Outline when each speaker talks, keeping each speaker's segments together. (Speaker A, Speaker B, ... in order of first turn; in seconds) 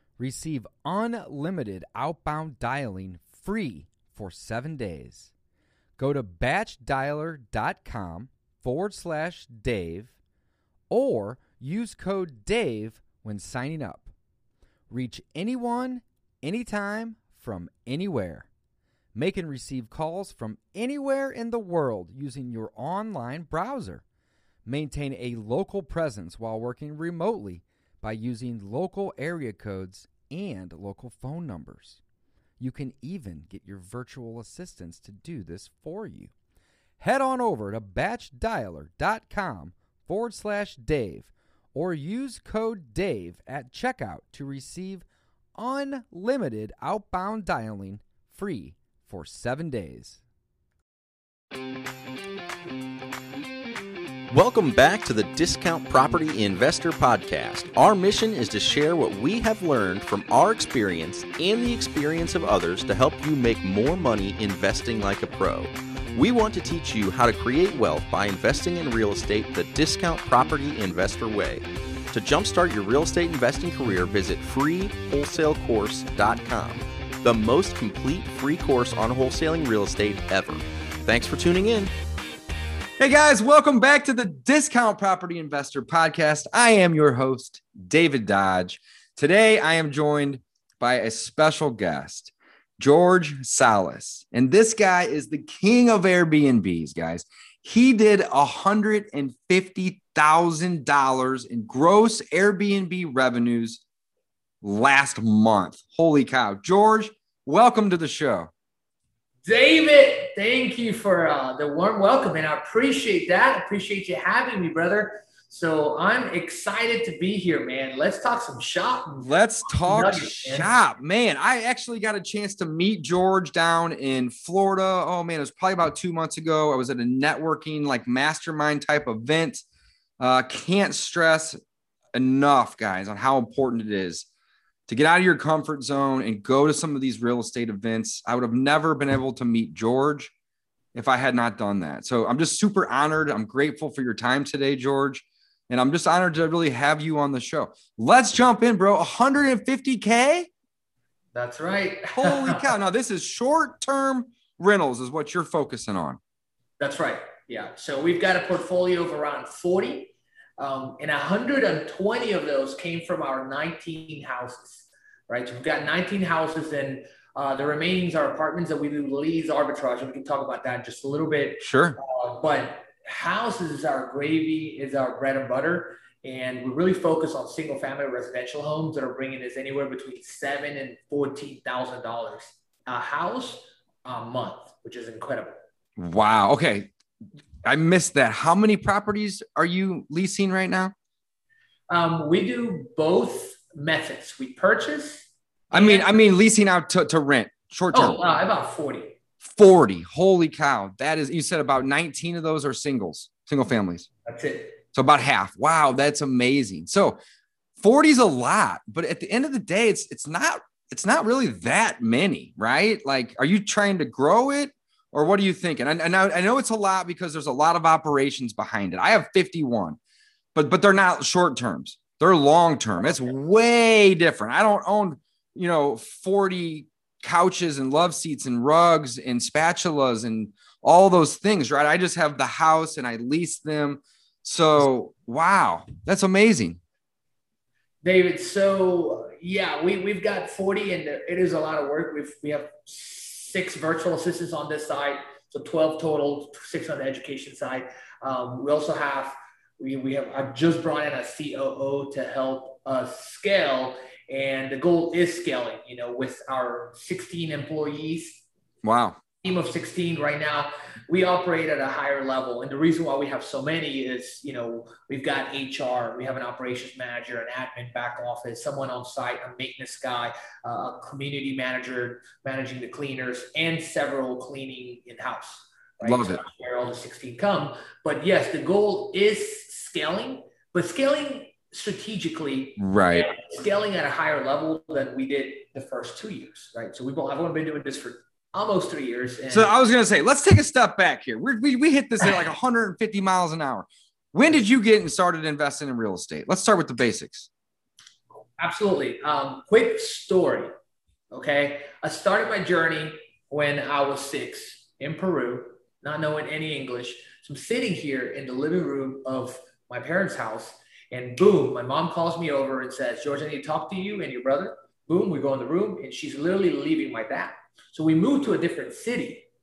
Speaker A: 0.2-5.3, 6.0-10.1, 10.9-14.1, 14.9-18.5, 19.1-24.0, 24.7-32.0, 32.6-36.3, 37.0-50.2, 83.0-103.8, 104.6-108.5, 119.2-129.6, 130.2-131.6, 132.1-134.3, 134.9-140.3, 140.9-150.5, 152.2-156.2, 171.6-172.0, 186.0-186.9, 187.6-190.9, 195.7-198.2, 199.4-204.1, 204.9-207.2, 207.8-220.0, 220.6-236.8, 258.8-259.2, 276.0-276.4, 282.8-283.3, 289.5-297.5
Speaker B: 54.3-81.9
Speaker C: 109.5-120.7, 151.3-152.7, 156.8-185.6, 191.9-196.2, 197.9-199.2, 204.2-204.8, 223.0-223.3, 238.0-258.4, 259.4-289.7, 298.6-300.7, 301.3-319.5